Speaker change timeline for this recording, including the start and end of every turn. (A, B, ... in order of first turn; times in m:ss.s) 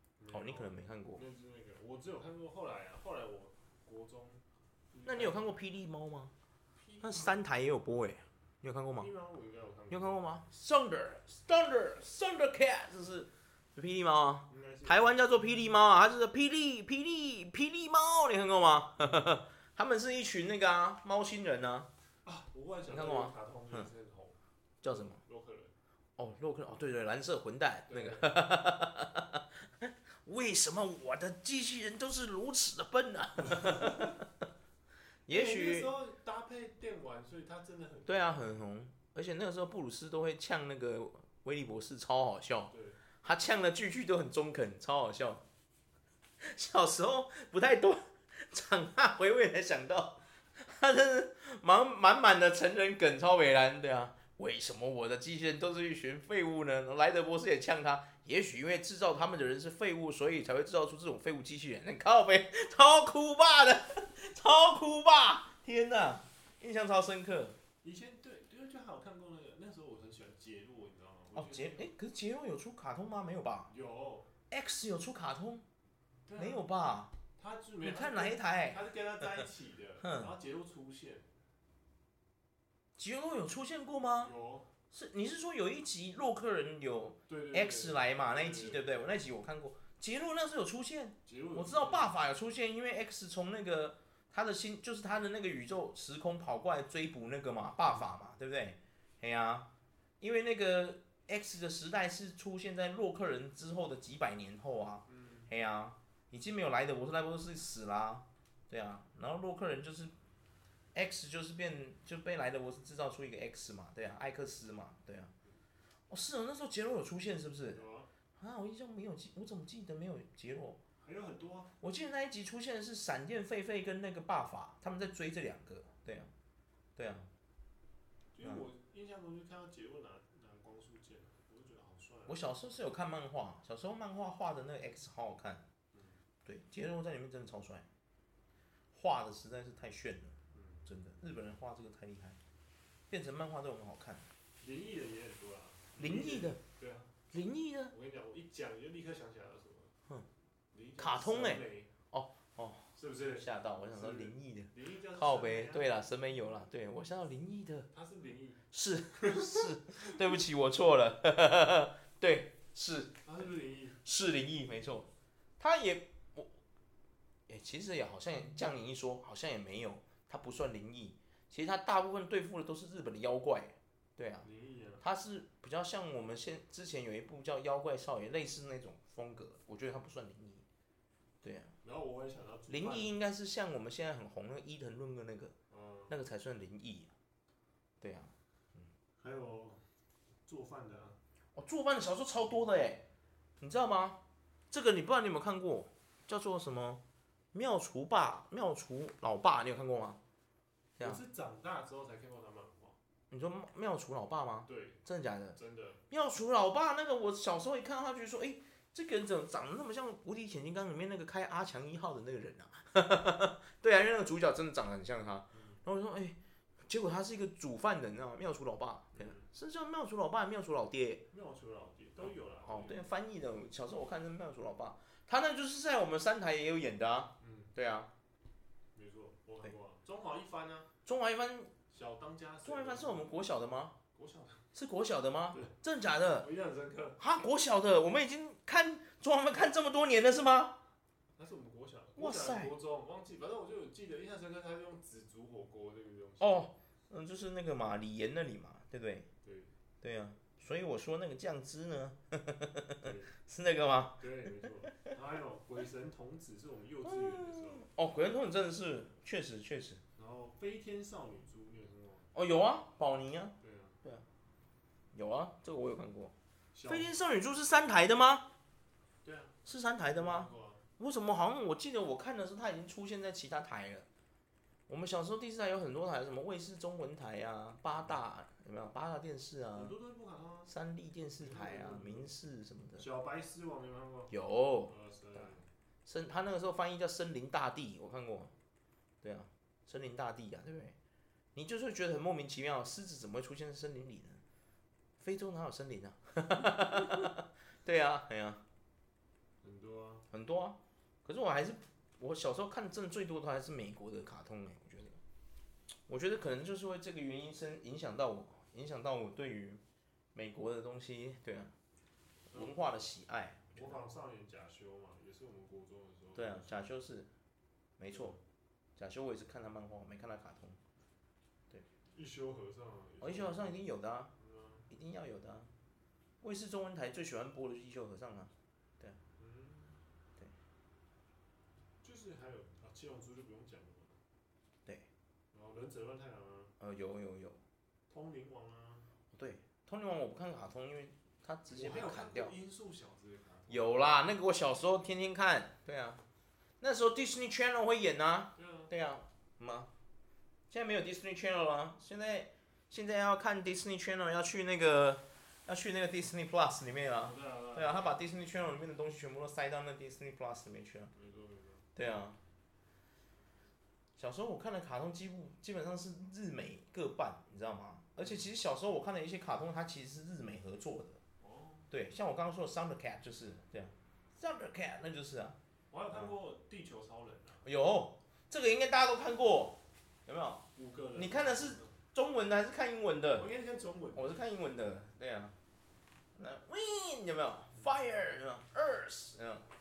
0:00.2-0:05.5 A
0:00.3-0:01.2 B
0:05.0-0:06.3 B
0:06.8-0:07.4 A
0:07.0-0:09.1 B
0:08.9-0:10.2 A
0:09.9-0:21.9 B
0:14.5-0:15.2 A
0:19.0-0:19.3 A
0:22.2-0:25.7 A
0:22.9-0:23.8 B
0:24.8-0:25.2 B
0:26.2-0:34.2 B
0:27.9-0:28.3 A
0:35.2-0:35.9 B
0:35.3-0:38.5 A
0:38.0-0:45.4 B
0:42.7-0:43.0 A
0:46.4-1:07.6 B
1:07.8-1:11.9 A
1:11.3-1:13.7 B
1:13.7-1:14.3 A
1:14.5-1:15.6 B
1:16.2-1:16.7 A
1:16.4-1:17.1 B
1:17.4-1:21.3 A
1:17.8-1:18.8 B
1:20.0-1:20.3 B
1:23.0-1:24.3 B
1:24.2-1:24.7 A
1:24.9-1:39.7 B
1:27.3-1:29.1 A
1:31.2-1:32.1 A
1:40.2-1:50.1 B
1:45.1-1:45.5 A
1:50.9-1:55.3 B
1:56.1-1:57.8 B
1:57.7-1:58.1 A
1:58.4-2:00.8 B
2:01.0-2:01.7 A
2:01.8-2:06.3 B
2:07.0-2:07.3 B
2:08.3-2:12.4 A
2:12.3-2:15.6 B
2:15.9-2:16.2 A
2:16.4-2:17.9 B
2:18.9-2:20.3 B
2:20.5-2:20.8 A
2:20.8-2:22.4 B
2:23.1-2:24.3 B
2:24.6-2:27.2 A
2:26.0-2:26.6 B
2:27.3-2:27.9 B
2:27.9-2:29.9 A
2:30.7-2:31.9 A
2:31.0-2:37.9 B
2:32.9-2:36.0 A
2:37.9-2:38.6 A
2:38.7-2:43.4 B
2:39.2-2:40.0 A
2:43.2-2:44.0 A
2:44.0-2:46.5 B
2:47.5-2:54.5 B
2:54.4-2:55.0 A
2:55.0-3:00.6 B
3:01.4-3:01.7 B
3:01.8-3:03.1 A
3:02.7-3:05.5 B
3:05.7-3:06.2 A
3:06.1-3:07.1 B
3:08.0-3:08.8 B
3:09.2-3:09.9 A
3:10.4-3:11.2 A
3:11.5-3:13.0 B
3:13.6-3:14.2 B
3:14.7-3:17.0 B
3:17.5-3:20.2 B
3:21.0-3:23.0 A
3:23.3-3:25.6 B
3:24.6-3:25.0 A
3:25.5-3:26.0 A
3:26.1-3:41.2 B
3:35.5-3:35.8 A
3:39.1-3:39.4 A
3:41.3-3:43.1 A
3:42.6-3:48.1 B
3:47.4-3:47.7 A
3:48.9-3:50.9 A
3:51.0-3:51.7 B
3:51.9-3:53.3 A
3:52.6-3:54.0 B
3:54.1-3:54.7 A
3:54.7-3:56.5 B
3:56.3-3:57.2 A
3:57.2-4:00.8 B
4:01.4-4:06.7 A
4:02.2-4:02.7 B
4:06.4-4:09.3 B
4:09.4-4:09.7 A
4:10.0-4:15.1 B
4:13.0-4:13.3 A
4:14.2-4:17.9 A
4:17.0-4:20.0 B
4:20.2-4:22.3 A
4:22.3-4:24.2 B
4:23.6-4:24.0 A
4:25.1-4:26.3 B
4:26.7-4:27.1 A
4:26.8-4:28.5 B
4:29.2-4:29.6 A
4:29.6-4:34.0 B
4:30.1-4:30.8 A
4:34.9-4:39.9 B
4:39.7-4:40.7 A
4:40.7-4:43.1 B
4:41.4-4:42.3 A
4:43.0-4:44.3 A
4:44.3-4:45.5 B
4:44.9-4:45.7 A
4:46.0-4:48.5 B
4:49.2-4:51.0 B
4:51.5-4:54.4 B
4:55.2-4:58.6 B
4:59.6-5:00.2 A
5:00.3-5:05.2 B
5:06.1-5:09.8 B
5:10.3-5:11.7 B
5:12.5-5:13.0 A
5:12.5-5:14.0 B
5:13.7-5:16.8 A
5:16.3-5:17.3 B
5:18.0-5:18.4 B
5:18.1-5:18.4 A
5:19.0-5:20.8 B
5:22.1-5:23.8 A
5:23.2-5:24.3 B
5:24.4-5:24.9 A
5:24.9-5:25.7 B
5:26.4-5:29.2 B
5:29.4-5:30.0 A
5:32.0-5:34.2 A
5:35.5-5:36.7 A
5:36.8-5:37.6 B
5:38.1-5:39.1 A
5:39.3-5:42.5 B
5:41.7-5:44.1 A
5:43.7-5:46.2 B
5:46.8-5:49.9 B
5:48.6-5:48.9 A
5:50.7-6:01.1 B
5:57.1-5:58.2 A
6:01.1-6:01.9 A
6:02.0-6:02.4 B
6:04.2-6:11.2 B
6:08.2-6:08.5 A
6:11.4-6:11.9 A
6:11.9-6:15.6 B
6:15.9-6:17.6 A
6:17.6-6:23.5 B
6:20.7-6:22.0 A
6:23.4-6:24.4 A
6:24.1-6:25.5 B
6:26.4-6:29.6 B